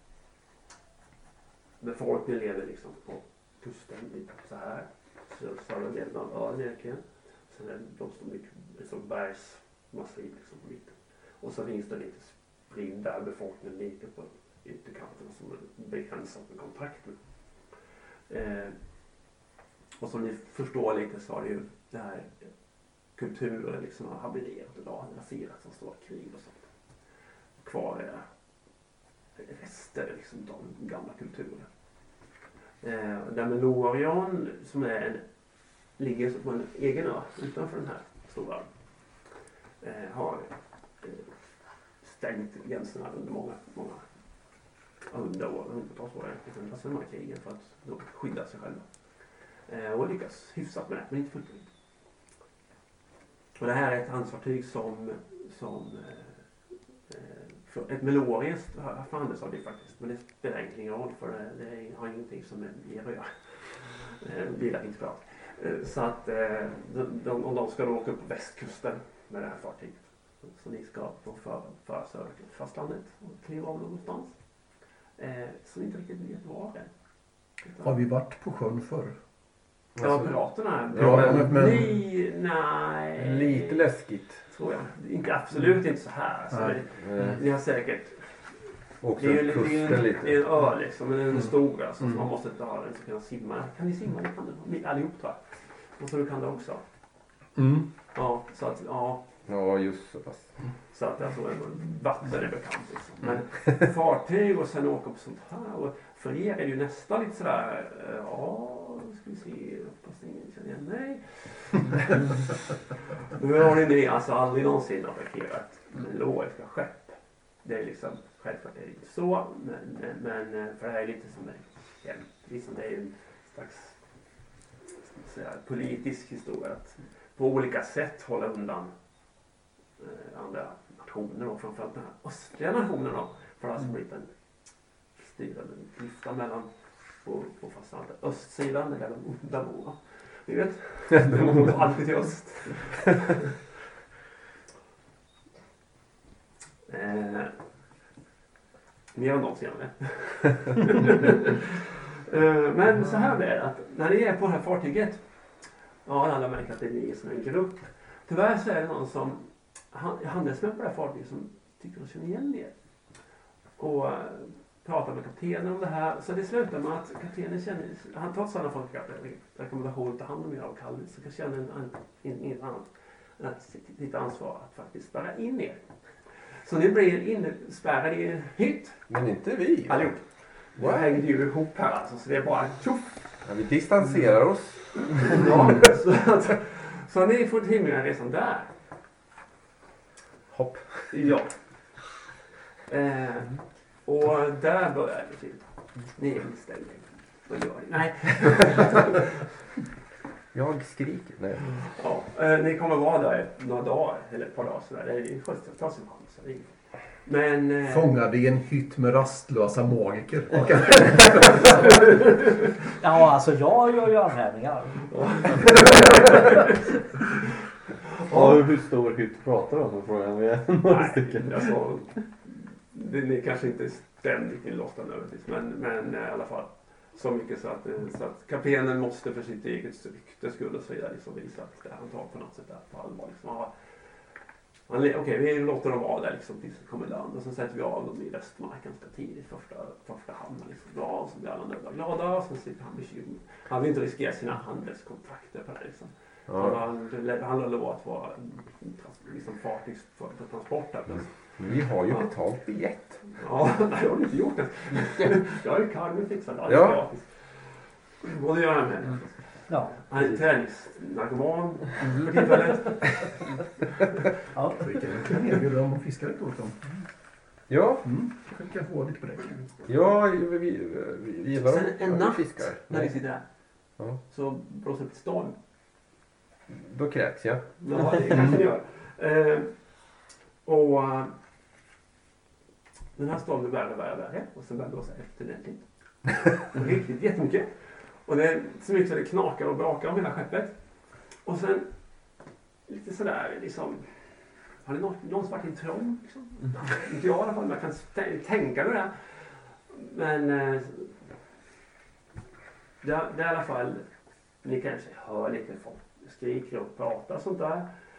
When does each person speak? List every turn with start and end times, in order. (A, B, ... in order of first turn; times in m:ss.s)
0:01.8-0:17.2 A
0:18.3-0:18.8 A
0:20.0-0:22.5 A
0:23.2-0:26.6 A
0:27.6-0:28.2 A
0:29.4-0:31.7 A
0:32.8-0:35.2 A
0:36.0-0:38.7 A
0:39.8-0:41.3 A
0:42.0-0:44.0 A
0:45.1-0:48.8 A
0:49.7-0:51.7 A
0:53.6-0:56.4 A
0:57.1-1:14.4 A
1:15.2-1:16.9 A
1:17.6-1:17.9 A
1:17.8-1:19.1 B
1:20.0-1:20.3 C
1:20.0-1:23.8 A
1:20.9-1:21.5 C
1:21.0-1:22.0 B
1:23.2-1:24.4 C
1:24.5-1:28.3 A
1:27.0-1:27.4 C
1:29.0-1:30.4 C
1:29.2-1:35.5 A
1:36.0-1:36.8 A
1:37.6-1:37.9 B
1:38.2-1:39.2 A
1:39.5-1:40.5 C
1:40.9-1:52.8 A
1:53.3-2:04.0 A
2:04.9-2:08.9 A
2:10.0-2:14.3 A
2:15.2-2:16.7 A
2:17.2-2:23.6 A
2:26.9-2:27.5 A
2:29.1-2:35.2 A
2:36.0-2:42.7 A
2:43.8-2:55.8 A
2:56.6-2:59.0 A
2:59.1-3:00.2 C
2:59.9-3:00.2 A
3:00.8-3:03.1 A
3:00.8-3:01.1 C
3:03.4-3:05.5 C
3:05.2-3:08.7 A
3:10.5-3:11.1 C
3:11.1-3:11.5 A
3:12.9-3:19.4 A
3:20.5-3:21.8 C
3:21.8-3:26.7 A
3:27.2-3:28.2 A
3:27.9-3:32.1 B
3:33.0-3:35.1 D
3:35.3-3:35.9 E
3:35.7-3:36.5 A
3:38.3-3:41.7 E
3:40.9-3:53.7 A
3:54.9-4:11.3 A
4:06.5-4:06.8 C
4:11.6-4:13.2 C
4:13.4-4:17.6 A
4:16.7-4:17.0 C
4:18.2-4:19.4 A
4:19.9-4:23.4 A
4:24.6-4:24.8 D
4:24.8-4:26.8 B
4:27.7-4:28.1 C
4:28.0-4:29.6 B
4:29.9-4:33.1 C
4:31.6-4:33.4 A
4:34.3-4:35.6 A
4:36.7-4:37.7 C
4:37.8-4:39.7 A
4:40.6-4:41.3 A
4:43.2-4:47.7 A
4:48.3-4:50.7 A
4:51.4-4:51.9 A
4:52.9-5:01.2 A
5:03.0-5:04.0 A
5:04.6-5:07.9 A